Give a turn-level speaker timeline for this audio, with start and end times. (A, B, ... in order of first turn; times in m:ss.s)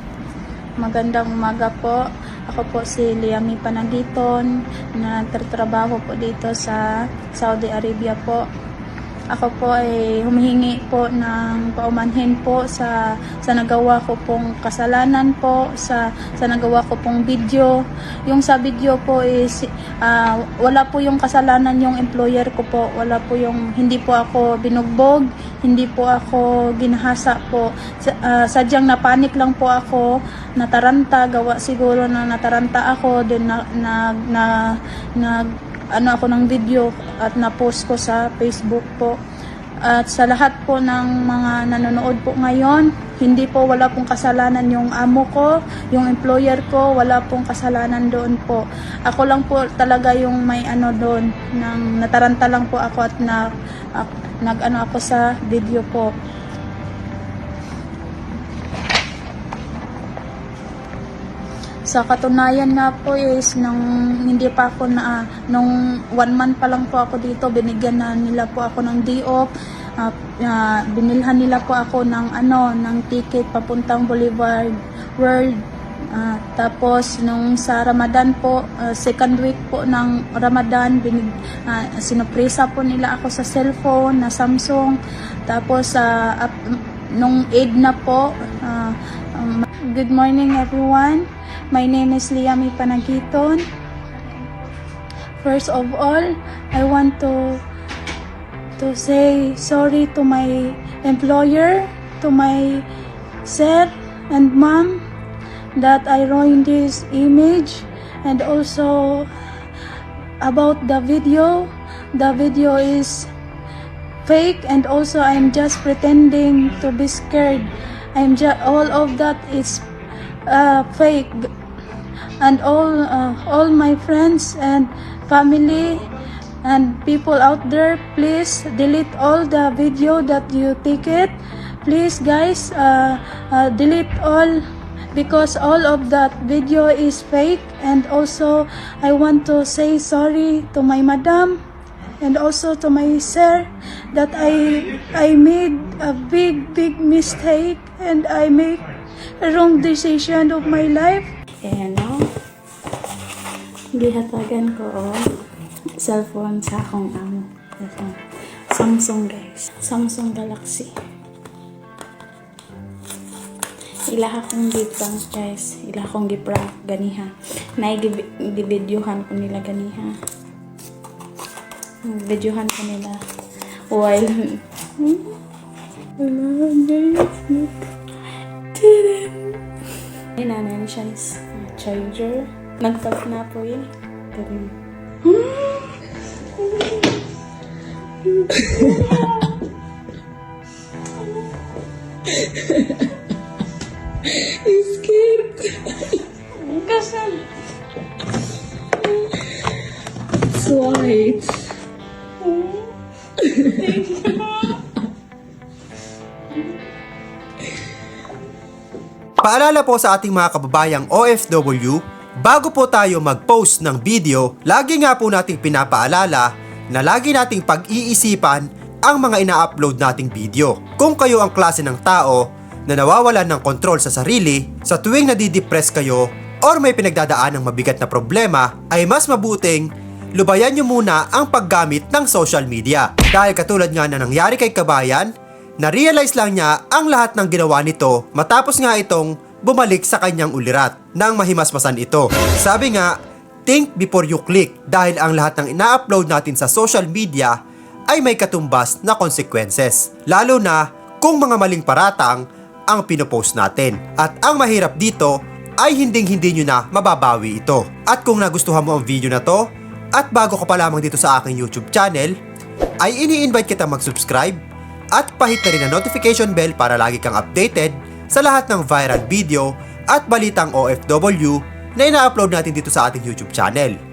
0:00.8-0:08.5 A
0:09.3-0:17.8 A
0:18.3-0:39.2 A
0:39.8-0:56.1 A
1:01.9-1:34.5 A
1:35.4-1:37.6 A
1:38.8-1:42.9 A
1:43.4-1:45.0 A
1:45.8-1:49.3 A
1:50.4-1:53.3 A
1:54.2-1:59.9 A
2:00.5-2:01.5 A
2:02.4-2:06.1 A
2:06.6-2:11.3 A
2:11.8-2:21.6 A
2:22.2-2:28.9 A
2:29.4-2:31.3 A
2:31.6-2:32.3 B
2:34.0-2:35.2 B
2:36.0-2:38.2 B
2:38.7-2:40.9 B
2:44.1-2:50.1 B
2:44.2-2:44.5 A
2:52.1-2:53.2 B
2:53.9-2:55.2 B
2:56.2-2:57.7 B
2:58.8-2:59.6 B
3:00.4-3:04.7 B
3:05.3-3:05.8 B
3:08.8-3:09.2 A
3:12.4-3:12.8 C
3:14.3-3:16.1 C
3:16.6-3:17.5 A
3:20.4-3:21.7 C
3:22.4-3:22.8 A
3:23.5-3:24.0 C
3:23.7-3:24.8 A
3:29.4-4:03.2 D
4:03.7-4:07.6 D
4:08.1-4:22.3 D
4:23.0-4:24.6 D
4:25.2-4:34.0 D